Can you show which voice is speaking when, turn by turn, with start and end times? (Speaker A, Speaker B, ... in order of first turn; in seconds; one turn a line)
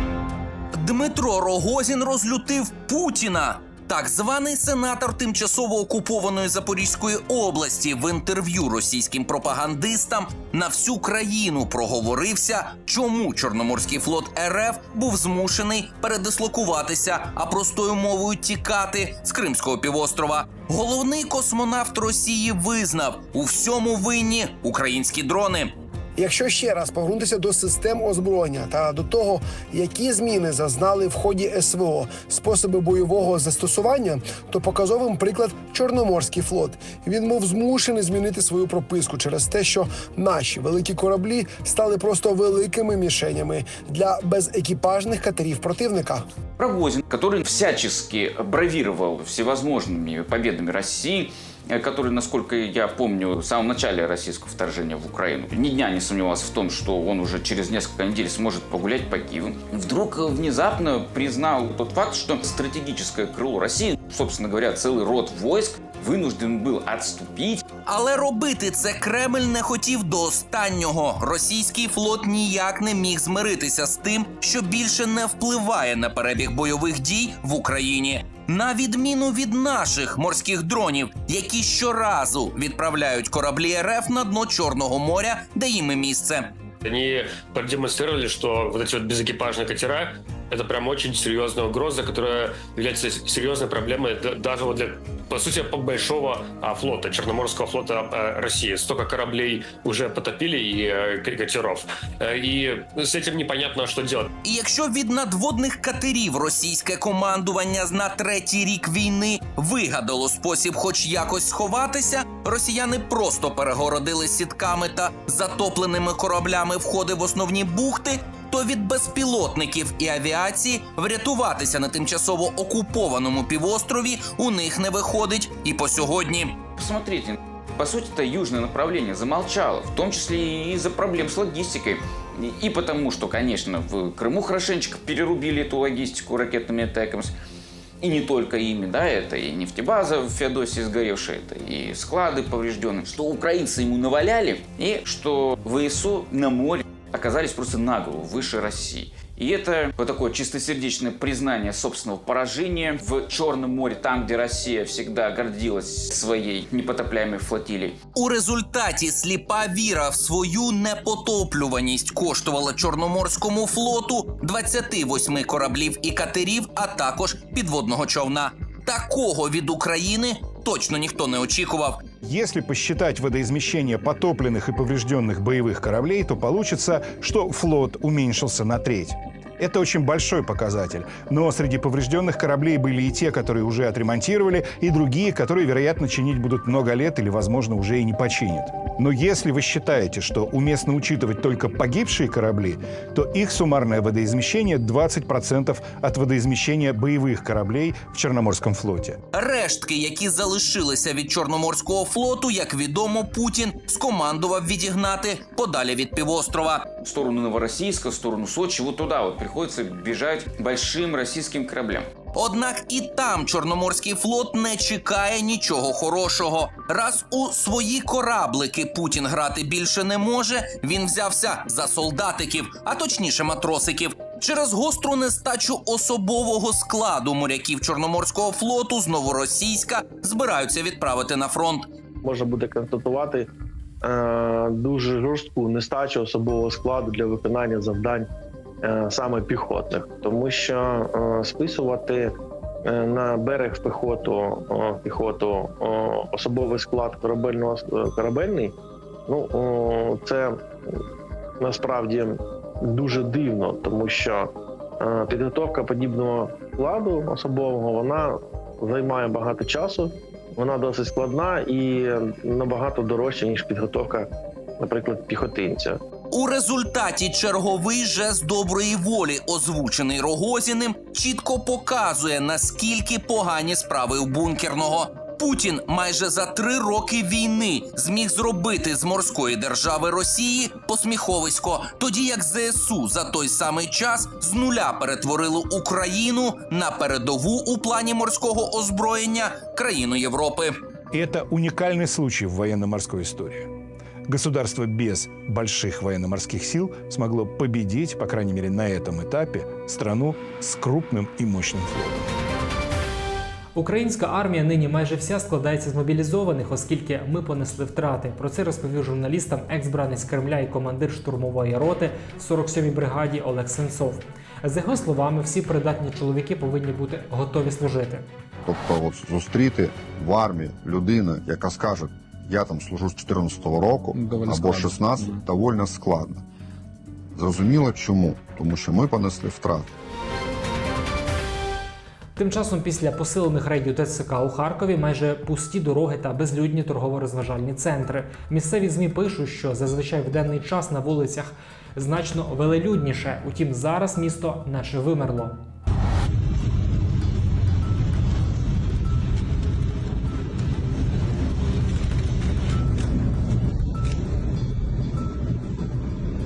Speaker A: 0.8-25.7
Speaker B: 26.2-46.2
Speaker C: 46.6-67.7
Speaker A: 67.8-86.5
Speaker D: 86.8-104.3
Speaker A: 104.4-126.6
Speaker C: 126.8-137.3
Speaker C: 138.0-158.0
Speaker A: 158.1-172.0
Speaker E: 172.2-199.2
Speaker A: 199.3-206.8
Speaker C: 207.0-212.1
Speaker A: 212.3-231.9
Speaker F: 232.3-233.2
Speaker F: 234.9-238.1
Speaker F: 239.0-240.7
Speaker F: 241.5-242.0
Speaker F: 243.0-244.2
Speaker F: 244.9-245.5
Speaker F: 246.4-248.5
Speaker F: 249.3-250.3
Speaker F: 251.7-252.2
Speaker F: 253.2-254.0
Speaker F: 255.3-258.1
Speaker F: 258.9-260.0
Speaker F: 260.8-261.6
Speaker F: 262.5-263.4
Speaker F: 264.8-265.9
Speaker A: 266.3-290.7
Speaker E: 291.1-293.7
Speaker E: 294.3-302.3
Speaker G: 303.7-318.3
Speaker H: 318.6-326.4
Speaker H: 327.3-329.9
Speaker G: 332.4-345.6